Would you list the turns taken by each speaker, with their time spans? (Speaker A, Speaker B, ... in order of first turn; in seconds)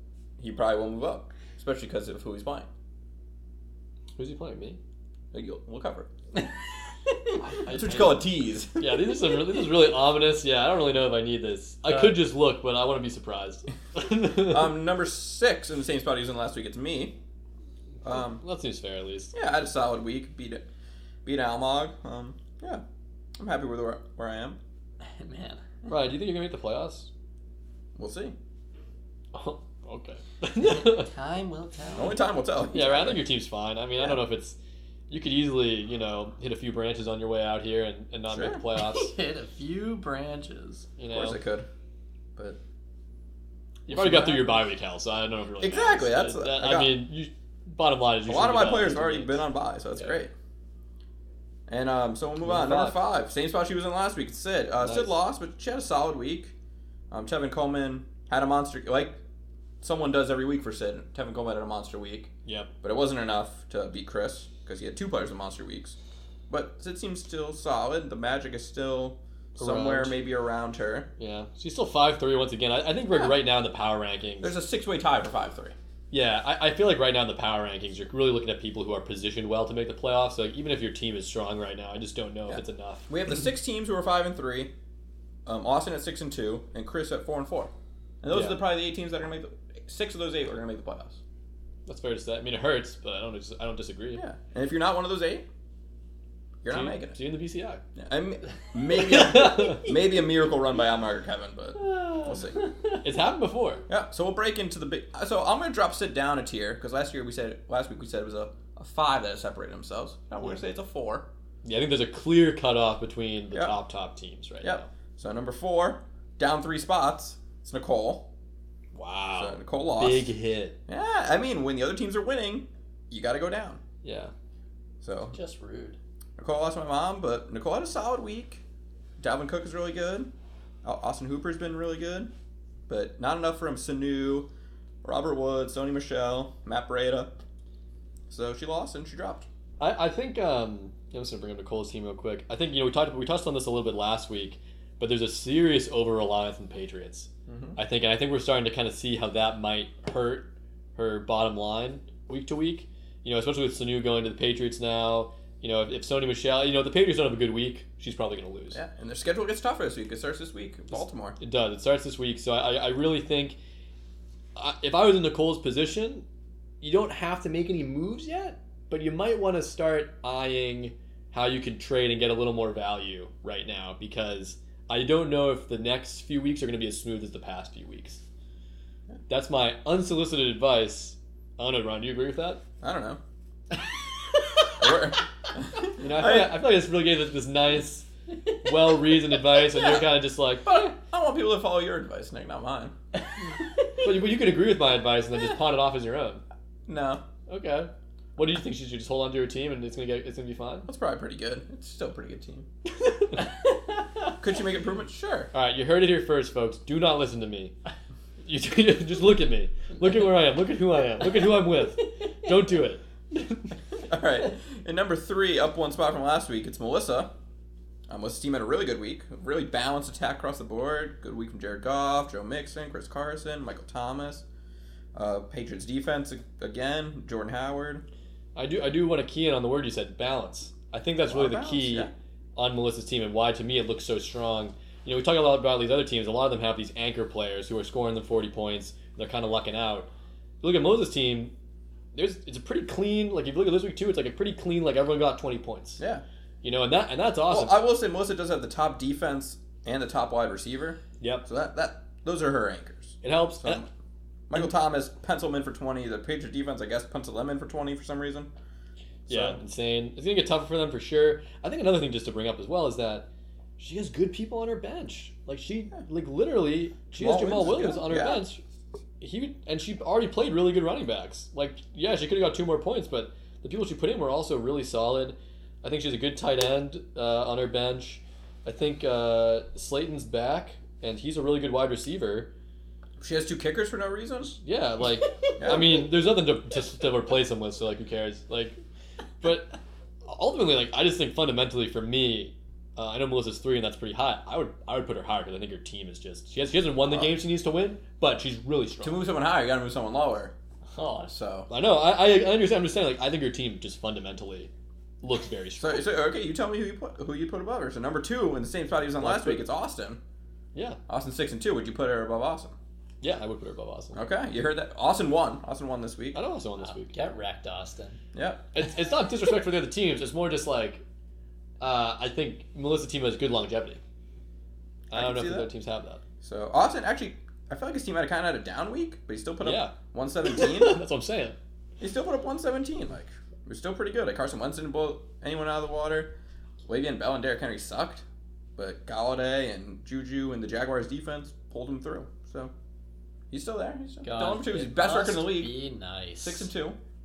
Speaker A: 0.4-2.7, 5.3-6.1, 7.7-8.8, 14.3-17.2, 18.0-18.4, 19.3-20.6, 21.2-22.8, 23.4-24.6, 27.9-28.3, 31.9-33.2, 38.3-38.6, 41.1-41.7, 43.9-44.6, 45.6-46.9, 48.2-50.3, 51.7-56.5, 57.1-59.2, 59.8-66.0, 66.5-71.1, 73.1-73.3, 74.4-75.7, 82.5-84.7, 85.5-87.7, 88.2-91.2, 94.1-95.5, 96.6-97.2, 97.9-102.6, 103.9-111.2, 114.6-118.3, 119.3-120.3, 120.9-123.8, 125.0-125.3, 126.4-128.6, 129.2-130.3, 130.8-132.3, 132.9-134.5, 135.0-137.3, 138.3-139.5, 147.5-147.8, 158.7-161.3, 182.8-183.2, 184.8-186.6, 189.7-190.1, 190.6-192.9, 196.9-197.2, 200.9-202.7, 204.4-205.5, 214.1-217.3, 218.1-224.4, 225.1-228.0, 231.3-232.1, 247.5-253.9, 254.5-258.5, 259.3-259.6, 267.1-268.4, 283.2-284.5, 285.6-286.0, 297.0-297.3, 299.0-300.5, 301.3-301.7, 305.8-310.2, 311.1-312.8, 314.1-316.4, 318.3-318.6, 325.1-325.7, 326.4-331.0, 332.0-336.3, 336.9-338.2, 338.8-342.7, 343.5-345.7, 346.4-347.0
Speaker B: 4.2-4.8, 7.4-14.7, 18.1-19.3, 25.9-27.1, 29.3-31.1, 32.7-34.6, 35.1-39.1, 41.0-41.4, 43.9-49.4, 52.4-53.0, 54.8-55.1, 62.5-62.7, 69.6-70.2, 71.2-74.5, 76.1-83.1, 88.3-88.6, 91.9-94.2, 96.7-97.8, 99.0-99.9, 103.0-103.8, 111.6-114.9, 118.9-120.8, 124.0-124.3, 139.8-158.8, 160.9-163.6, 164.6-166.2, 166.8-178.2, 179.3-182.6, 186.0-188.1, 188.6-190.7, 194.0-196.4, 197.5-200.9, 203.0-203.4, 205.5-207.7, 208.4-213.7, 228.6-240.1, 240.6-241.5, 242.1-246.0, 246.6-247.8, 251.2-251.4, 253.2-253.8, 259.3-263.2, 263.8-268.6, 269.2-282.5, 284.6-288.8, 289.4-289.7, 290.2-299.2, 301.7-304.7, 305.2-306.0, 309.2-309.6, 313.2-314.2, 316.3-317.2, 318.7-321.0, 321.8-324.0, 325.1-326.2, 329.6-329.9, 330.5-331.6
Speaker C: 25.0-25.6, 30.6-32.2, 38.7-40.9, 101.8-103.0, 125.3-126.0, 300.9-301.4, 316.8-318.2, 344.2-346.7